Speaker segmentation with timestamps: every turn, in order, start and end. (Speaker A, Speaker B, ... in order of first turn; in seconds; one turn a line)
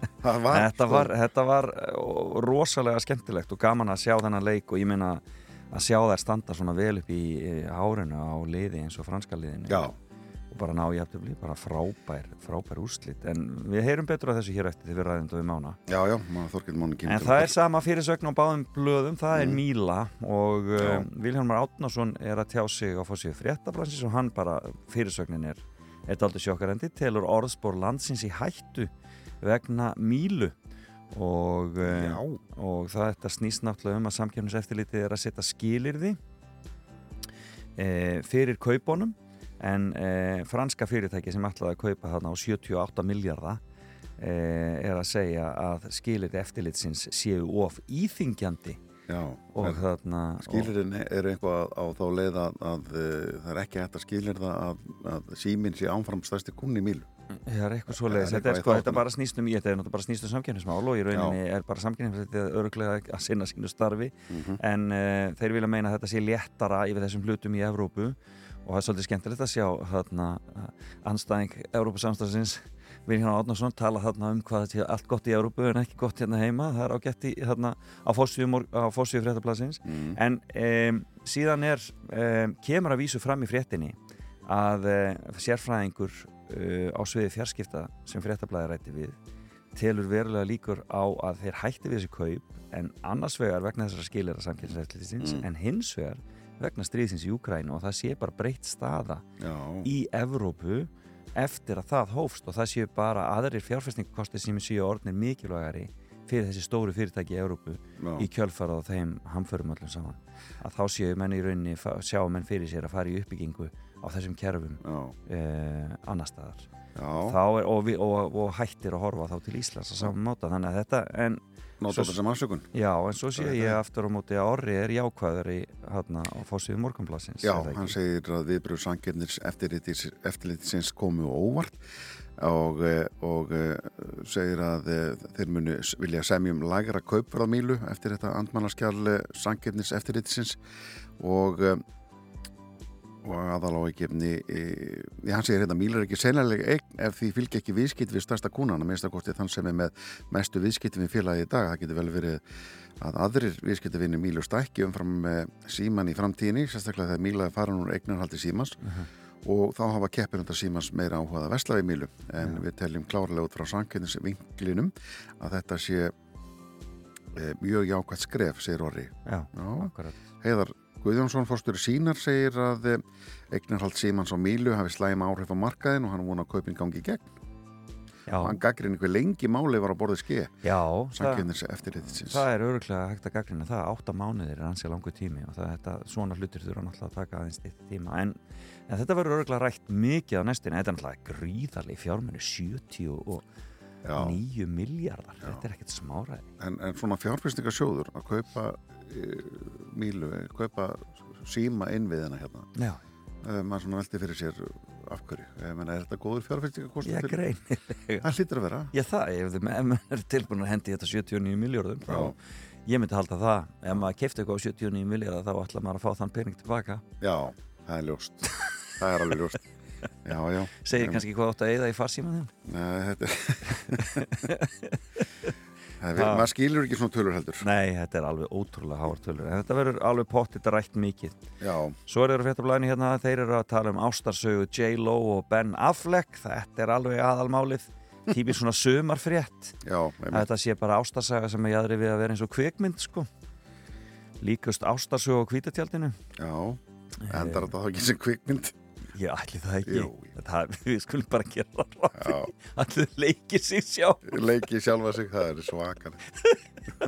Speaker A: 0.2-1.1
Speaker B: 0.5-9.9
Speaker A: 9.7-9.9
Speaker B: 10.5-15.8
Speaker A: 15.9-17.5
Speaker B: 17.1-28.9
Speaker A: 19.3-19.6
Speaker A: 20.8-21.1
Speaker B: 29.4-30.5
Speaker B: 31.1-36.2
Speaker A: 31.8-32.4
Speaker B: 37.8-43.6
Speaker B: 44.2-48.8
Speaker A: 49.1-49.8
Speaker B: 49.5-50.7
Speaker A: 50.4-57.1
Speaker B: 57.4-89.2
Speaker A: 57.9-59.0
Speaker A: 61.1-61.4
Speaker A: 64.3-64.6
Speaker A: 79.8-80.2
Speaker B: 89.8-99.2
Speaker A: 99.4-99.9
Speaker B: 99.8-116.7
Speaker A: 108.0-108.3
Speaker A: 114.8-115.1
Speaker A: 116.9-117.4
Speaker B: 117.2-122.2
Speaker A: 121.8-122.7
Speaker B: 122.7-128.0
Speaker A: 123.3-123.8
Speaker A: 127.4-131.8
Speaker A: 132.4-140.6
Speaker A: 141.2-141.8
Speaker A: 143.2-152.4
Speaker A: 153.0-158.8
Speaker B: 158.8-159.1
Speaker A: 159.4-166.1
Speaker A: 167.3-169.9
Speaker B: 169.2-170.2
Speaker A: 170.4-177.3
Speaker B: 178.3-178.6
Speaker A: 178.4-180.5
Speaker B: 180.6-181.4
Speaker A: 181.1-182.4
Speaker B: 182.1-193.4
Speaker A: 194.0-194.4
Speaker B: 194.2-196.5
Speaker A: 196.6-202.7
Speaker B: 202.8-203.0
Speaker A: 203.4-207.4
Speaker B: 207.0-208.3
Speaker A: 208.2-208.9
Speaker B: 208.9-217.0
Speaker A: 212.1-212.3
Speaker A: 217.2-219.6
Speaker A: 220.2-221.2
Speaker B: 220.8-222.5
Speaker A: 222.7-224.2
Speaker B: 223.7-225.5
Speaker A: 226.0-227.6
Speaker B: 226.2-226.5
Speaker B: 227.6-231.4
Speaker A: 231.6-231.9
Speaker B: 232.1-239.8
Speaker A: 239.8-240.5
Speaker B: 240.3-243.3
Speaker B: 244.4-246.2
Speaker A: 246.4-248.8
Speaker B: 247.2-247.7
Speaker B: 249.1-254.4
Speaker A: 249.8-250.3
Speaker A: 252.1-252.5
Speaker A: 254.3-256.2